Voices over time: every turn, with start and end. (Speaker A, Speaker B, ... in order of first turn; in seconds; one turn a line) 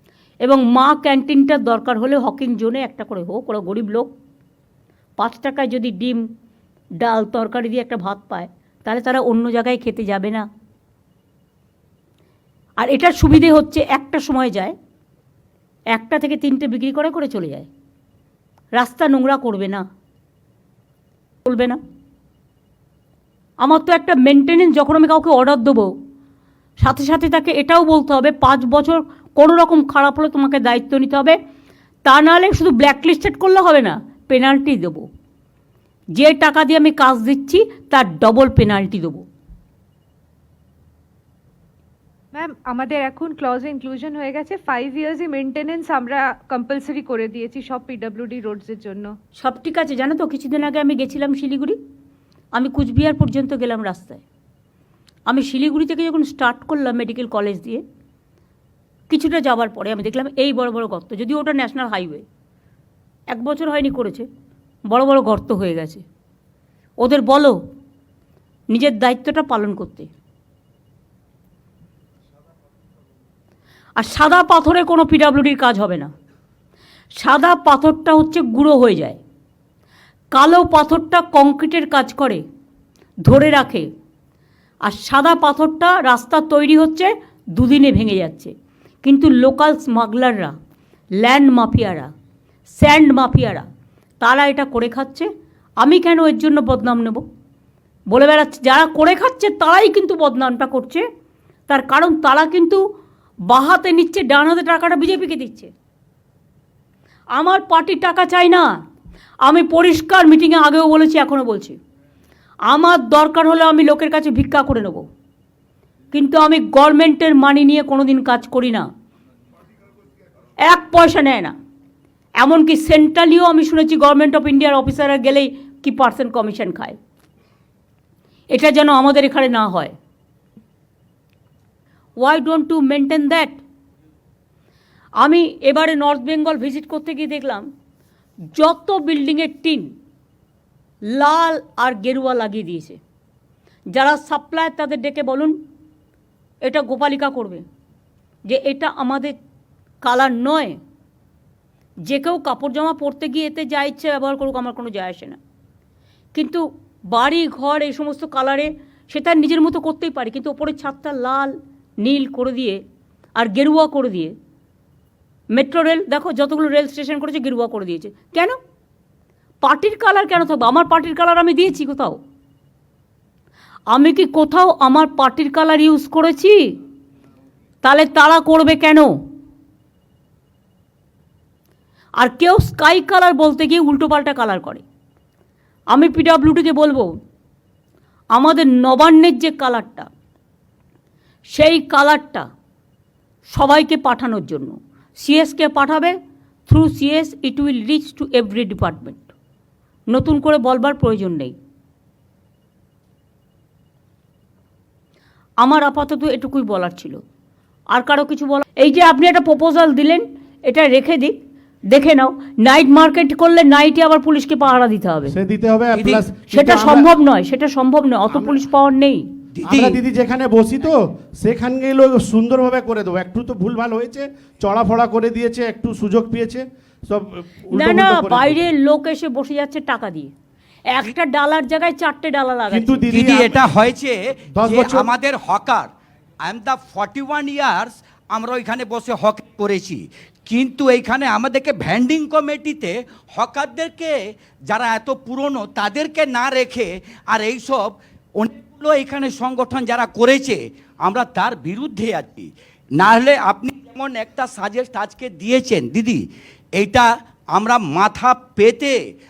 Speaker A: 0.4-4.1
Speaker A: 5.2-6.2
Speaker A: 7.0-10.4
Speaker A: 12.8-14.7
Speaker A: 15.9-17.7
Speaker A: 18.8-19.8
Speaker A: 21.4-21.8
Speaker A: 23.6-25.9
Speaker A: 26.8-31.4
Speaker A: 32.0-35.1
Speaker A: 36.1-39.2
Speaker B: 42.3-49.1
Speaker A: 49.4-51.8
Speaker A: 52.5-54.2
Speaker A: 55.3-57.8
Speaker A: 59.1-62.2
Speaker A: 63.3-64.2
Speaker A: 64.9-66.0
Speaker A: 67.0-67.6
Speaker A: 68.7-70.1
Speaker A: 74.0-76.1
Speaker A: 77.2-79.2
Speaker A: 80.3-82.4
Speaker A: 83.2-83.9
Speaker A: 84.8-88.5
Speaker A: 89.0-90.5
Speaker A: 91.2-92.1
Speaker A: 92.7-93.7
Speaker A: 94.2-95.3
Speaker A: 95.8-97.2
Speaker A: 98.1-101.0
Speaker A: 101.7-102.8
Speaker A: 103.5-105.7
Speaker A: 107.3-108.7
Speaker A: 109.4-111.8
Speaker A: 112.7-115.0
Speaker A: 116.1-118.9
Speaker A: 120.6-121.5
Speaker A: 122.4-127.0
Speaker A: 128.5-129.9
Speaker A: 132.2-133.6
Speaker A: 135.2-137.7
Speaker A: 138.5-139.9
Speaker A: 141.1-143.0
Speaker A: 143.9-145.6
Speaker A: 146.6-147.6
Speaker A: 148.5-149.3
Speaker A: 150.0-150.8
Speaker A: 152.1-155.4
Speaker A: 156.3-162.8
Speaker A: 163.3-164.3
Speaker A: 165.5-168.6
Speaker A: 169.6-172.2
Speaker A: 173.9-176.7
Speaker A: 177.8-179.1
Speaker A: 182.2-184.8
Speaker A: 185.9-187.1
Speaker A: 188.3-190.1
Speaker A: 191.5-192.5
Speaker A: 193.5-196.2
Speaker A: 196.7-199.3
Speaker A: 200.1-201.5
Speaker A: 205.6-207.2
Speaker A: 207.9-211.4
Speaker A: 211.9-215.3
Speaker C: 215.3-217.1
Speaker D: 215.9-216.2
Speaker A: 216.5-219.2
Speaker D: 219.6-220.0
Speaker C: 219.6-228.5
Speaker A: 227.7-230.3
Speaker A: 230.9-233.1
Speaker C: 232.7-233.6
Speaker D: 233.1-235.9
Speaker C: 234.5-235.1
Speaker D: 236.4-244.1
Speaker D: 244.7-256.2
Speaker D: 256.8-258.9